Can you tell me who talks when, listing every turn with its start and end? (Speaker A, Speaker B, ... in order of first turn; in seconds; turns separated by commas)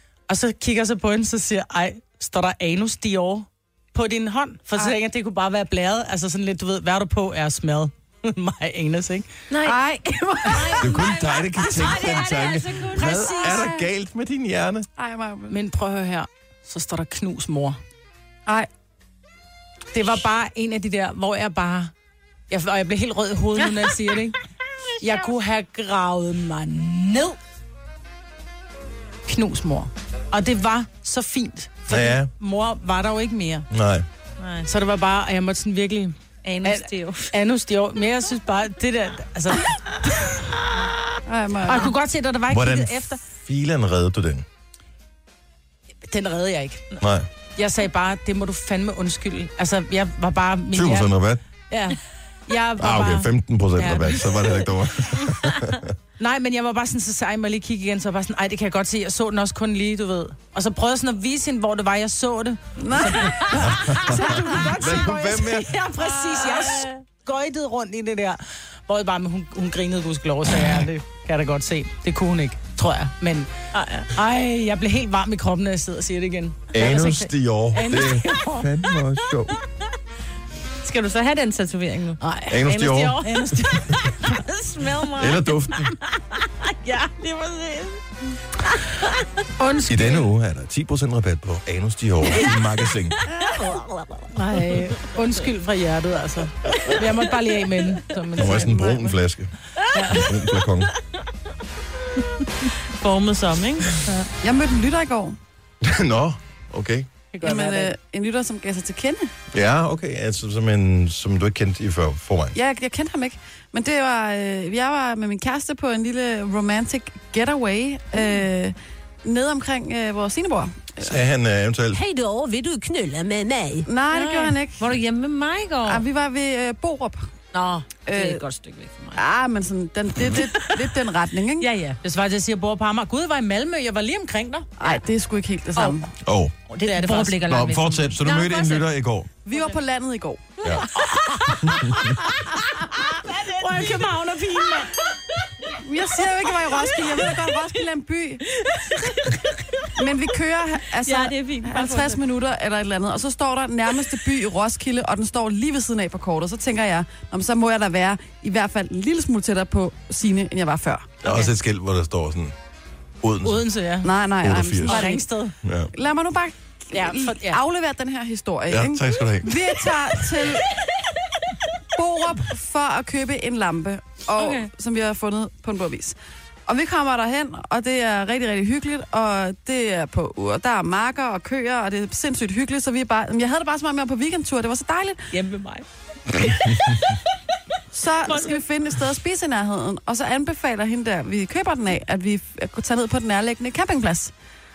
Speaker A: 0.3-9.3, Speaker B: 9.5-9.8, Speaker C: 9.6-11.0, Speaker B: 10.4-13.7, Speaker D: 10.8-14.9, Speaker A: 12.9-13.8, Speaker C: 15.0-15.6, Speaker A: 15.5-17.8, Speaker A: 19.9-21.9, Speaker A: 22.5-24.4, Speaker A: 25.0-27.4, Speaker A: 29.3-33.7, Speaker D: 31.9-32.3, Speaker D: 33.7-34.1, Speaker B: 34.4-34.7, Speaker A: 34.7-40.4, Speaker B: 36.4-37.3, Speaker C: 41.3-42.0, Speaker A: 41.6-43.2, Speaker D: 42.5-44.5, Speaker A: 46.1-46.8, Speaker D: 47.0-47.3, Speaker A: 47.6-51.1, Speaker D: 50.7-51.4, Speaker A: 51.7-54.7, Speaker D: 52.8-55.9, Speaker A: 56.2-73.5, Speaker C: 62.8-64.0, Speaker D: 63.6-65.7, Speaker B: 66.0-66.9, Speaker B: 73.7-74.1, Speaker A: 74.1-78.7, Speaker D: 76.7-79.6, Speaker B: 80.8-82.2, Speaker A: 82.2-85.2, Speaker D: 82.5-84.0, Speaker B: 84.7-85.2, Speaker D: 85.2-86.0, Speaker B: 86.6-88.0, Speaker A: 89.6-90.3, Speaker D: 89.9-93.2, Speaker A: 94.3-99.1, Speaker D: 98.3-99.5, Speaker A: 99.9-100.3, Speaker D: 100.1-100.9, Speaker B: 102.7-103.9, Speaker C: 104.4-105.4, Speaker D: 105.8-107.1, Speaker A: 107.3-107.9, Speaker C: 107.4-109.3, Speaker D: 109.5-112.6, Speaker C: 112.5-121.2, Speaker D: 121.0-122.0, Speaker E: 121.9-123.9, Speaker C: 123.9-124.9, Speaker B: 124.1-126.0, Speaker C: 125.8-127.2, Speaker B: 127.5-129.2, Speaker C: 128.1-128.4, Speaker C: 129.2-131.7, Speaker B: 131.6-132.0, Speaker A: 132.0-134.7, Speaker C: 134.8-136.1, Speaker D: 136.2-136.5, Speaker B: 136.7-138.9, Speaker A: 136.8-137.7, Speaker D: 137.5-139.3, Speaker C: 139.4-140.5, Speaker B: 140.8-141.5, Speaker A: 141.1-142.5, Speaker D: 141.6-142.1, Speaker B: 143.3-143.6, Speaker A: 143.5-144.9, Speaker C: 145.8-148.4, Speaker B: 148.5-149.9, Speaker C: 150.0-161.2, Speaker B: 151.0-152.2, Speaker D: 161.2-162.6, Speaker D: 163.2-163.6, Speaker A: 163.4-164.1, Speaker C: 164.0-165.2, Speaker D: 164.4-165.0, Speaker A: 164.8-165.6, Speaker B: 164.9-165.2, Speaker D: 165.6-165.9, Speaker C: 165.9-170.7, Speaker A: 166.9-167.6, Speaker D: 168.7-169.6, Speaker C: 171.9-176.2, Speaker B: 174.4-174.7, Speaker C: 176.7-185.2, Speaker A: 185.3-185.8, Speaker C: 187.9-194.3, Speaker B: 188.3-188.6